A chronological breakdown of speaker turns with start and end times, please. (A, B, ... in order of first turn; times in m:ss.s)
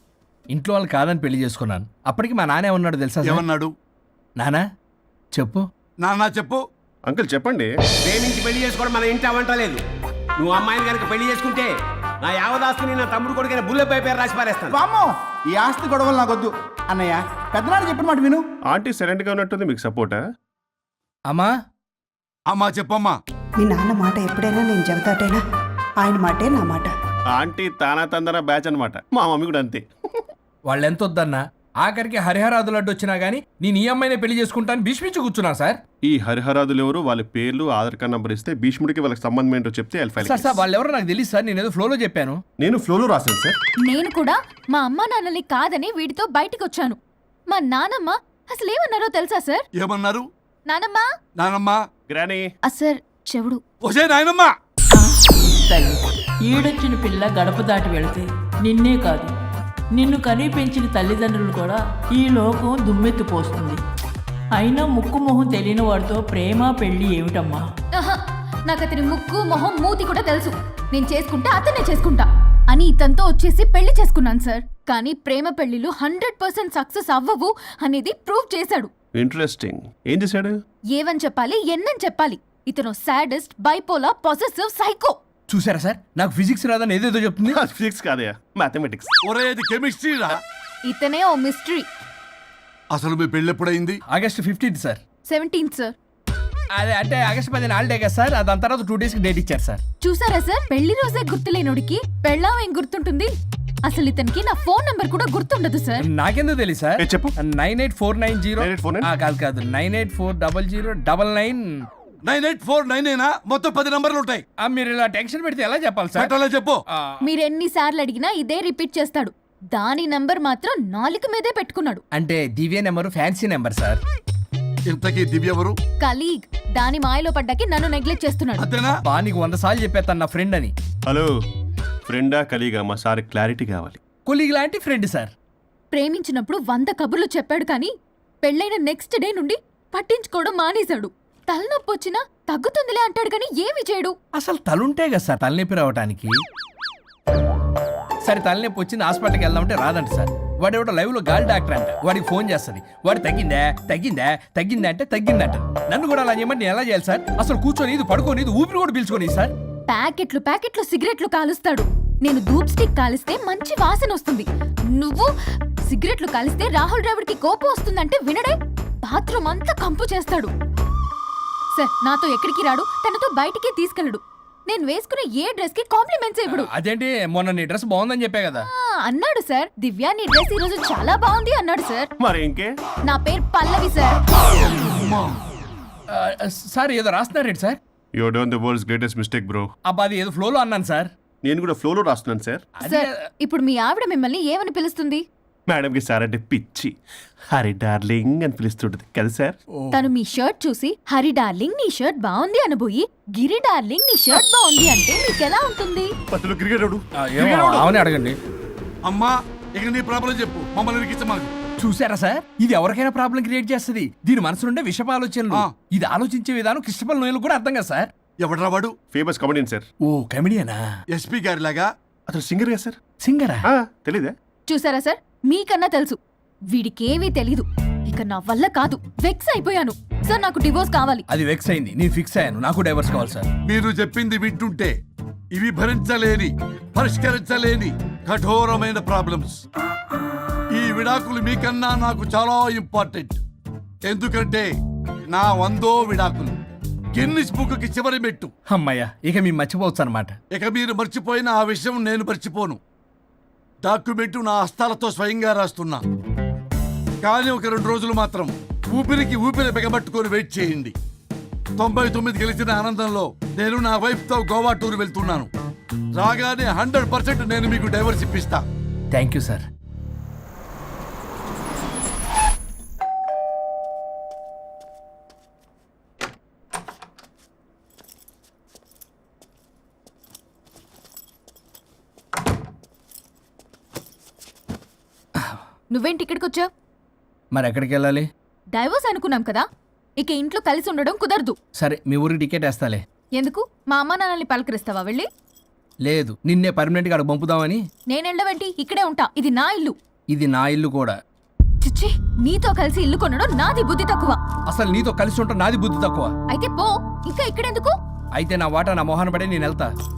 0:00.5-0:03.4 A
0:03.2-0:03.7 B
0:04.4-0:04.6 A
0:05.3-0:05.6 A
0:06.0-0:06.6 B
0:07.0-0:07.7 C
0:08.0-0:09.8 D
0:10.4-0:14.8 D
0:14.7-0:18.4 E
0:18.7-0:20.2 C
0:22.5-0:23.2 B
0:23.6-0:25.4 F
0:26.0-0:26.9 F
0:27.3-0:29.8 C
0:30.7-0:35.8 A
0:36.0-0:40.6 C
0:40.2-0:42.4 A
0:42.6-0:43.6 C
0:43.8-0:47.0 G
0:47.5-0:49.6 G
0:49.8-0:50.2 B
0:50.7-0:51.1 G
0:51.4-0:51.8 B
0:52.1-0:52.4 C
0:52.6-0:53.6 G
0:53.8-0:54.5 B
0:55.6-0:59.3 H
1:00.0-1:03.8 H
1:04.6-1:07.6 H
1:07.9-1:18.9 G
1:19.2-1:20.5 C
1:20.9-1:25.2 G
1:25.5-1:27.6 A
1:27.5-1:29.1 C
1:29.2-1:30.4 B
1:30.8-1:31.9 G
1:32.9-1:34.0 B
1:34.1-1:35.0 A
1:35.3-1:35.9 G
1:36.8-1:39.8 A
1:40.0-1:43.3 G
1:43.8-1:46.1 G
1:46.0-1:51.8 A
1:47.0-1:47.3 C
1:48.6-1:49.1 C
1:52.2-1:54.4 B
1:54.6-1:56.3 A
1:56.1-1:56.8 B
1:57.2-2:02.0 G
2:02.1-2:04.0 A
2:04.9-2:05.7 B
2:06.0-2:08.7 G
2:08.6-2:09.0 B
2:09.1-2:10.7 A
2:11.0-2:11.3 C
2:12.1-2:14.0 C
2:14.2-2:15.3 A
2:15.9-2:24.2 G
2:24.3-2:26.3 A
2:28.2-2:39.5 A
2:39.9-2:45.3 G
2:45.9-2:50.5 G
2:51.7-2:56.7 G
2:56.5-2:58.7 A
2:58.6-3:02.1 G
3:02.2-3:02.7 C
3:03.1-3:04.2 G
3:04.7-3:05.4 B
3:06.1-3:07.8 A
3:08.2-3:09.6 C
3:09.9-3:11.1 A
3:11.4-3:12.6 C
3:12.8-3:13.1 A
3:12.8-3:15.2 G
3:15.7-3:16.9 C
3:17.5-3:19.6 C
3:19.8-3:20.0 A
3:19.9-3:26.1 G
3:26.3-3:27.0 C
3:27.2-3:28.4 A
3:27.4-3:27.9 B
3:29.0-3:31.5 B
3:31.8-3:38.1 A
3:38.4-3:38.9 B
3:39.1-3:39.8 C
3:40.0-3:40.8 A
3:41.1-3:41.9 B
3:42.3-3:43.0 C
3:43.2-3:43.6 A
3:43.6-3:44.3 C
3:44.7-3:46.2 G
3:46.7-3:51.2 G
3:51.3-3:53.5 A
3:53.6-3:54.9 B
3:55.5-3:59.6 B
4:00.8-4:03.4 B
4:04.1-4:04.7 B
4:05.3-4:06.5 B
4:07.1-4:08.5 B
4:08.7-4:10.4 A
4:10.5-4:12.8 B
4:13.8-4:16.0 B
4:17.2-4:20.9 B
4:21.8-4:25.5 B
4:26.2-4:28.6 B
4:29.1-4:29.6 A
4:45.9-4:46.7 G
4:47.5-4:48.3 A
4:48.7-4:49.7 G
4:50.2-4:51.6 G
4:51.8-4:53.0 A
4:53.4-4:55.3 G
4:56.0-4:57.8 A
4:58.1-5:00.0 G
5:00.3-5:01.2 A
5:01.8-5:04.4 G
5:04.7-5:06.3 A
5:06.5-5:08.0 G
5:08.4-5:09.9 A